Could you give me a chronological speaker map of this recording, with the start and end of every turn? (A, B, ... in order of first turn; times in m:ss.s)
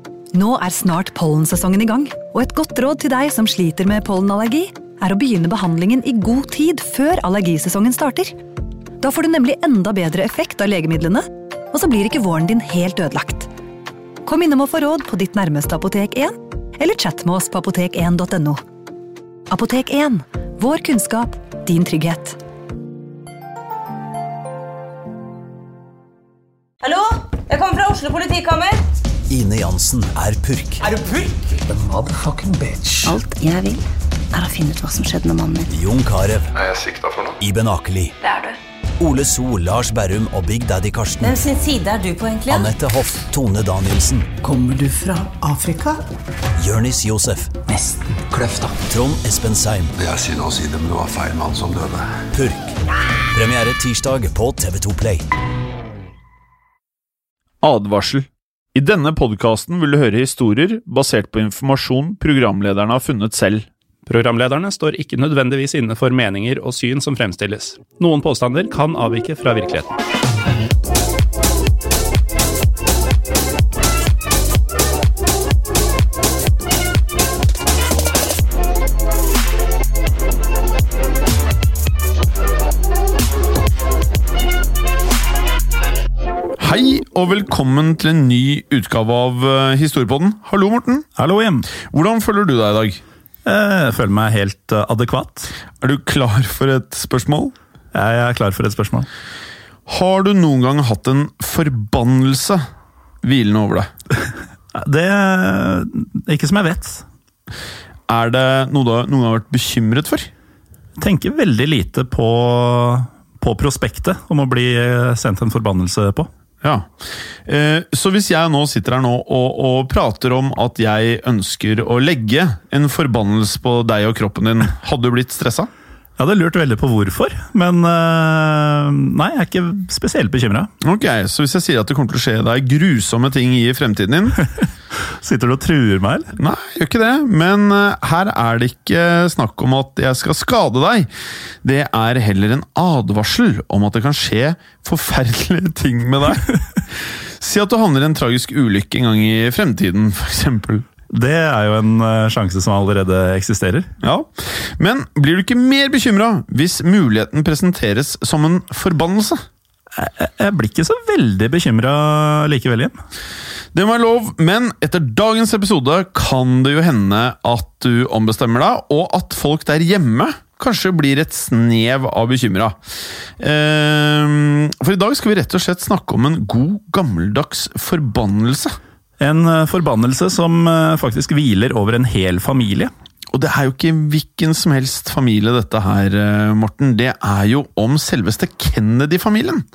0:00.3-0:08.3 A
0:09.0-0:13.5 A
0:14.2-0:18.6 A
0:19.5-0:22.4 A
0:26.8-0:28.8 B
0:29.3-0:30.8 C
0:32.1-0:33.1 D
0:33.0-0:35.7 E
0:35.7-0:36.5 C
0:36.5-0:37.4 F
0:37.4-0:38.1 C
0:39.0-0:41.4 C
0:41.2-0:42.7 B
0:42.5-0:44.3 C
0:44.4-0:45.3 D
0:46.6-0:47.6 C
0:48.8-0:49.9 C
0:50.0-0:52.2 F
0:52.3-0:52.7 C
0:53.3-0:55.2 C
0:57.6-1:03.7 G
1:04.1-1:10.0 H
1:26.6-1:31.1 G
1:31.2-1:31.7 H
1:31.9-1:33.0 G
1:33.4-1:35.5 H
1:35.8-1:37.5 G
1:37.9-1:39.1 H
1:39.9-1:42.6 G
1:43.2-1:43.9 G
1:44.7-1:47.0 H
1:48.1-1:50.3 G
1:51.0-1:56.3 H
1:56.6-1:56.9 G
1:57.4-2:05.7 G
2:06.2-2:10.7 H
2:10.8-2:14.4 G
2:14.6-2:16.3 H
2:16.4-2:21.1 G
2:21.6-2:26.6 G
2:27.4-2:30.8 G
2:31.1-2:33.9 H
2:34.0-2:39.4 G
2:39.9-2:43.0 H
2:43.7-2:52.8 G
2:53.4-2:58.8 G
2:59.2-3:02.9 H
3:03.3-3:09.6 G